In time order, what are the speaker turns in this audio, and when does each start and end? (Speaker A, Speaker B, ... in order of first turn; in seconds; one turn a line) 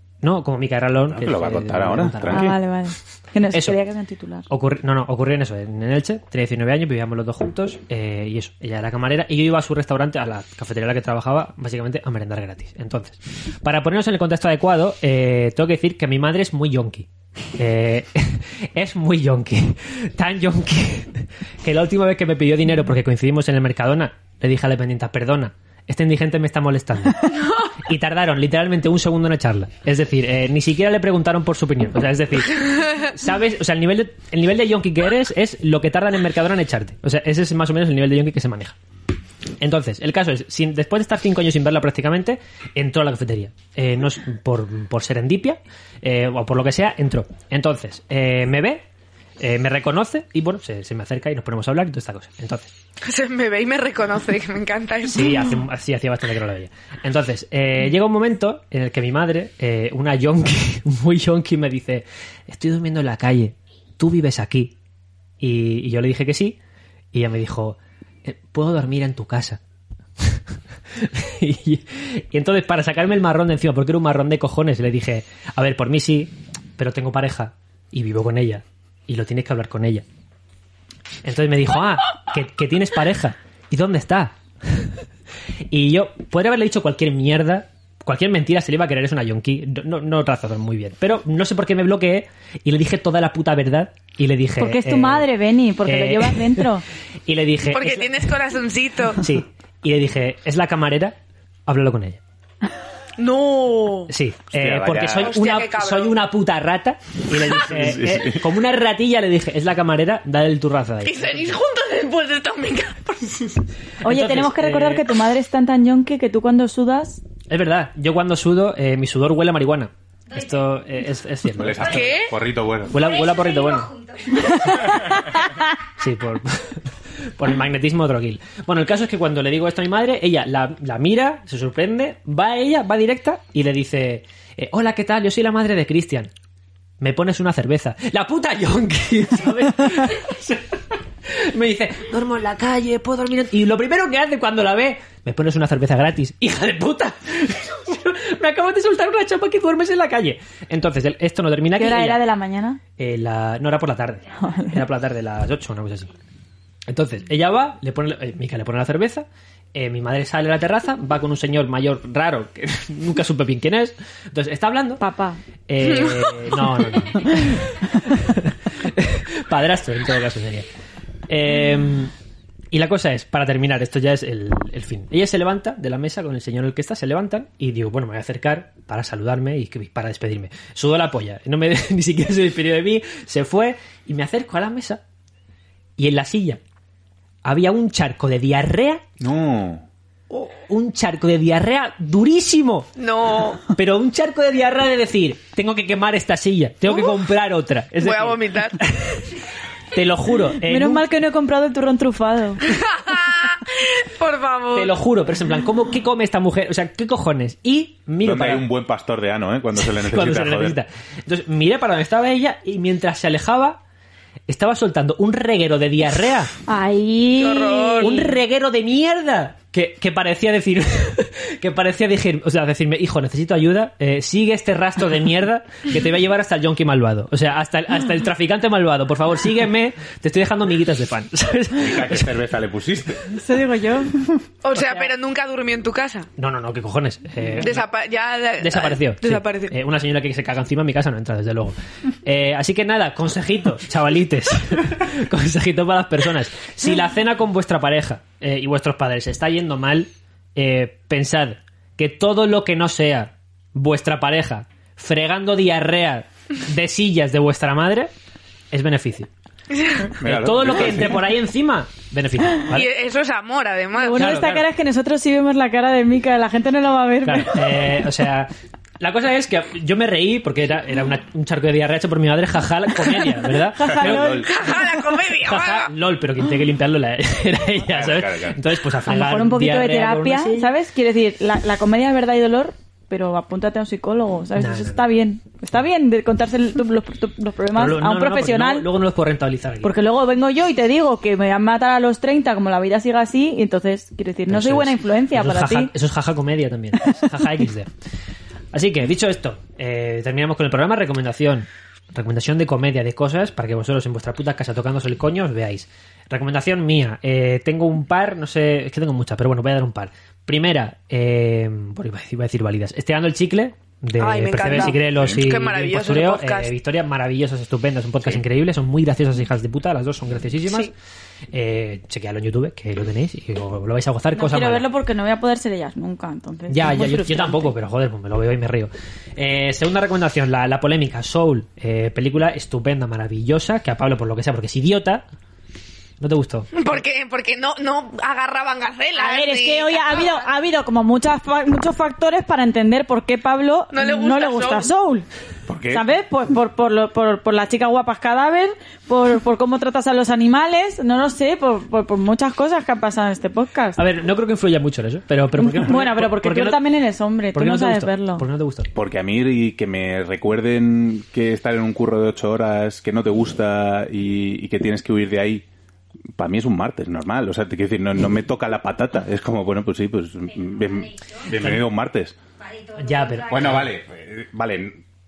Speaker A: 0.2-2.5
Speaker B: 1.1-2.6
Speaker C: 2.3-4.5
Speaker A: 3.5-3.8
Speaker A: 4.5-27.3
Speaker A: 27.8-38.8
Speaker A: 39.6-48.8
Speaker A: 49.4-52.7
Speaker D: 53.0-55.5
Speaker A: 55.1-64.7
Speaker A: 65.4-66.6
Speaker A: 67.1-69.6
Speaker A: 71.0-80.0
Speaker A: 81.2-84.9
Speaker A: 85.7-95.3
Speaker C: 94.6-96.8
Speaker A: 95.8-96.7
Speaker A: 97.3-98.2
Speaker D: 97.7-99.2
Speaker A: 99.2-101.2
Speaker A: 101.7-102.2
Speaker D: 103.2-104.1
Speaker A: 104.1-111.6
Speaker B: 104.5-105.4
Speaker D: 105.2-106.2
Speaker B: 107.4-108.5
Speaker D: 111.0-113.5
Speaker C: 114.0-117.2
Speaker A: 114.0-115.0
Speaker A: 117.5-122.0
Speaker E: 120.3-120.8
Speaker B: 121.6-123.1
Speaker E: 121.7-122.2
Speaker D: 121.8-122.3
Speaker A: 122.9-125.3
Speaker E: 122.9-125.2
Speaker A: 126.0-126.8
Speaker A: 127.4-136.3
Speaker A: 137.0-152.2
Speaker C: 151.7-152.8
Speaker A: 153.0-156.1
Speaker C: 154.4-154.8
Speaker A: 156.9-165.0
Speaker C: 165.0-165.4
Speaker A: 165.7-170.7
Speaker D: 165.8-166.6
Speaker A: 171.3-172.1
Speaker A: 172.7-185.0
Speaker A: 186.0-186.6
Speaker A: 187.4-189.0
Speaker B: 189.2-189.8
Speaker A: 190.7-192.9
Speaker D: 193.0-193.7
Speaker A: 193.7-199.4
Speaker D: 198.0-198.8
Speaker A: 199.9-201.1
Speaker C: 200.6-202.6
Speaker D: 202.7-204.9
Speaker A: 204.7-208.7
Speaker B: 208.2-210.8
Speaker A: 209.8-213.8
Speaker A: 214.5-216.5
Speaker C: 216.7-218.3
Speaker D: 217.4-218.2
Speaker A: 218.0-232.3
Speaker B: 231.8-233.2
Speaker C: 233.3-234.1
Speaker D: 234.6-236.3
Speaker C: 234.7-235.1
Speaker A: 236.4-237.8
Speaker D: 237.6-239.7
Speaker A: 238.6-258.1
Speaker A: 258.7-259.3
Speaker D: 259.7-260.1
Speaker B: 260.1-261.3
Speaker A: 260.2-262.9
Speaker D: 262.7-264.3
Speaker C: 264.0-267.8
Speaker A: 264.1-264.6
Speaker A: 267.2-274.4
Speaker C: 273.7-274.8
Speaker B: 273.9-274.5
Speaker D: 274.5-275.9
Speaker A: 275.4-280.7
Speaker B: 277.8-278.6
Speaker C: 279.1-288.9
Speaker A: 284.6-285.0
Speaker A: 287.7-289.9
Speaker C: 289.8-295.9
Speaker A: 294.5-297.9
Speaker A: 298.7-320.9
Speaker D: 314.2-316.7
Speaker B: 315.0-315.4
Speaker A: 321.5-324.8
Speaker C: 324.3-327.7
Speaker A: 326.7-335.2
Speaker A: 336.2-336.7
Speaker D: 336.7-340.4
Speaker C: 339.1-345.2
Speaker D: 343.9-344.9
Speaker B: 345.7-346.0
Speaker C: 345.9-354.0
Speaker A: 354.0-356.8
Speaker C: 355.6-358.4
Speaker A: 357.5-358.9
Speaker B: 358.9-365.6
Speaker B: 366.4-372.3
Speaker E: 370.4-371.6
Speaker A: 371.5-371.8
Speaker E: 372.6-373.8
Speaker A: 373.0-373.9
Speaker B: 373.5-375.0